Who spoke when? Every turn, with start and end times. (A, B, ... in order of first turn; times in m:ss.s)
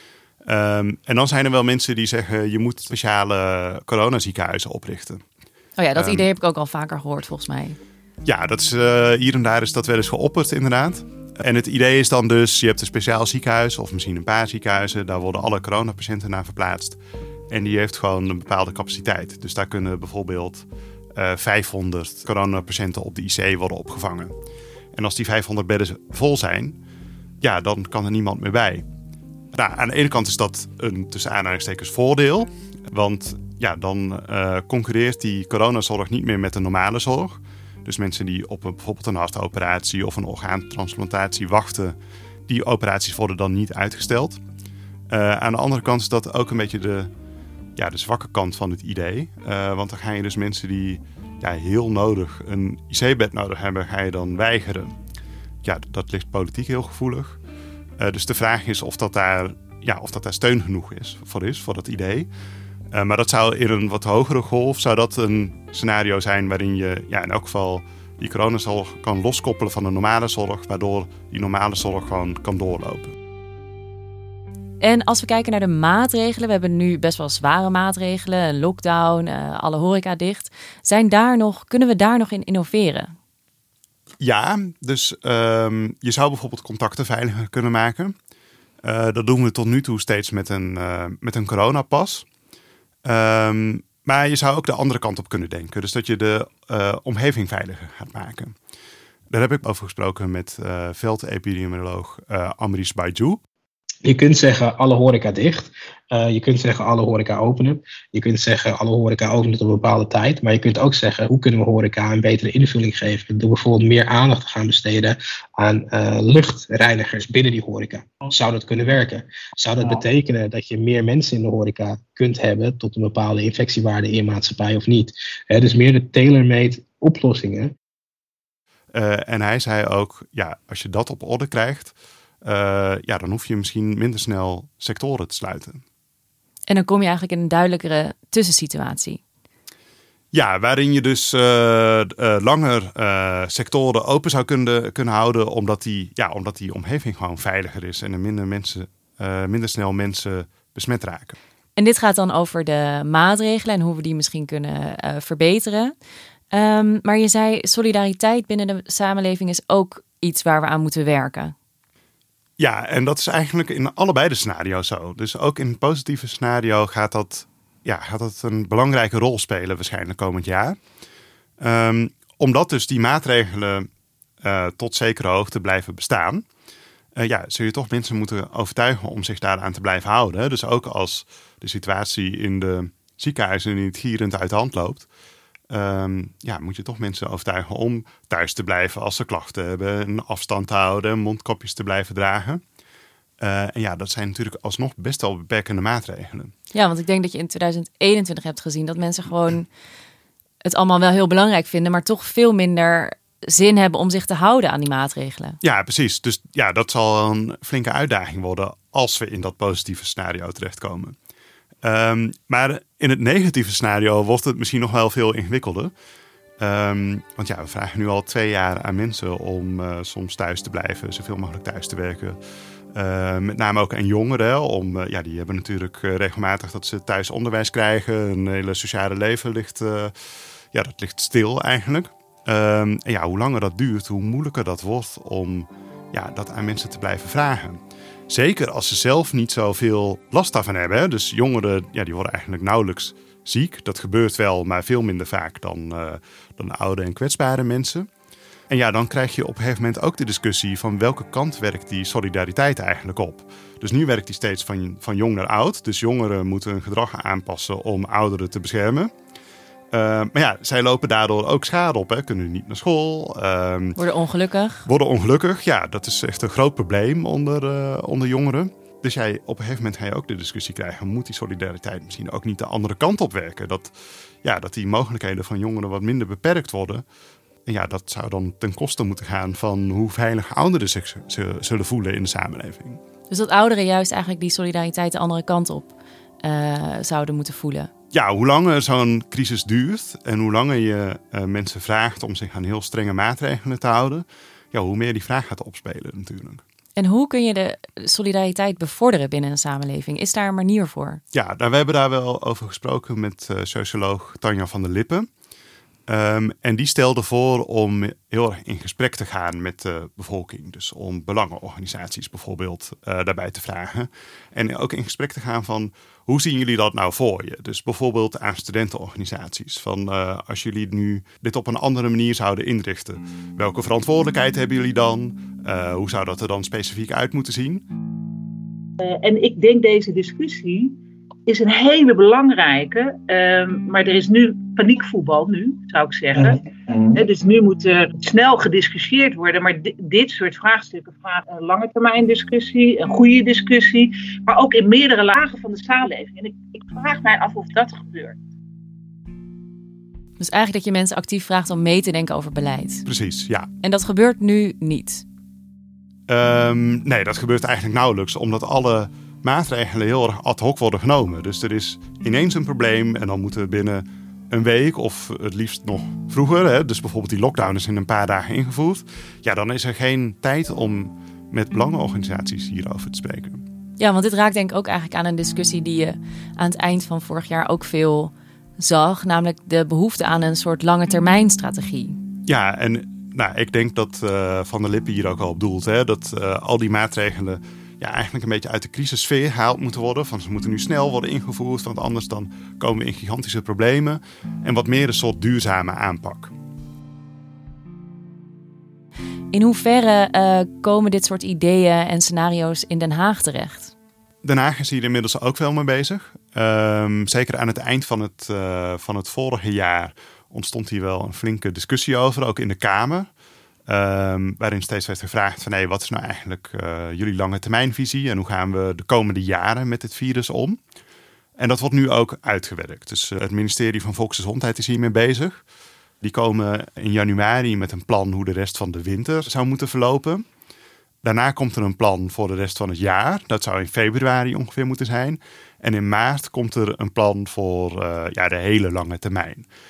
0:00.4-0:05.2 A
0:05.8-0:07.8 B
0:05.9-0:06.3 A
0:08.2-0:17.0 A
0:17.5-0:24.3 A
0:24.9-0:26.8 A
0:27.4-0:28.8 A
0:29.5-0:42.0 A
0:42.5-0:44.4 A
0:45.1-0:47.1 A
0:47.8-0:54.9 A
0:55.6-0:57.4 A
0:58.0-1:02.3 A
1:02.9-1:13.1 A
1:14.8-1:23.1 B
1:24.2-1:28.1 A
1:28.8-1:32.2 A
1:33.0-1:38.5 A
1:39.3-1:43.4 A
1:44.0-2:07.7 C
2:08.9-2:15.8 A
2:16.7-2:19.2 B
2:20.3-2:31.4 A
2:31.8-2:35.9 B
2:36.5-2:41.5 B
2:42.6-2:50.8 A
2:51.6-2:53.9 A
2:54.4-2:56.4 A
2:57.2-3:05.1 A
3:05.7-3:12.6 A
3:13.4-3:16.5 A
3:16.7-3:19.7 B
3:20.6-3:25.6 B
3:25.6-3:31.1 A
3:31.8-3:35.9 A
3:36.6-3:42.4 A
3:42.9-3:50.1 A
3:50.7-4:08.1 A
4:08.7-4:19.1 A
4:19.9-4:24.0 A
4:24.0-4:24.9 B
4:24.8-4:33.9 A
4:34.4-4:37.0 A
4:37.7-4:43.0 A
4:43.3-4:47.9 B
4:48.1-4:56.6 A
4:57.0-5:01.2 B
5:01.3-5:05.3 A
5:06.1-5:27.8 A
5:29.0-5:30.9 D
5:31.5-5:48.4 D
5:50.4-5:53.0 B
5:53.0-5:53.7 A
5:53.8-5:55.2 B
5:56.3-6:13.6 A
6:14.0-6:22.2 B
6:22.4-6:36.5 A
6:39.5-6:43.9 B
6:44.4-6:53.3 A
6:53.9-7:00.8 A
7:01.6-7:05.6 A
7:06.2-7:10.4 A
7:11.2-7:19.6 A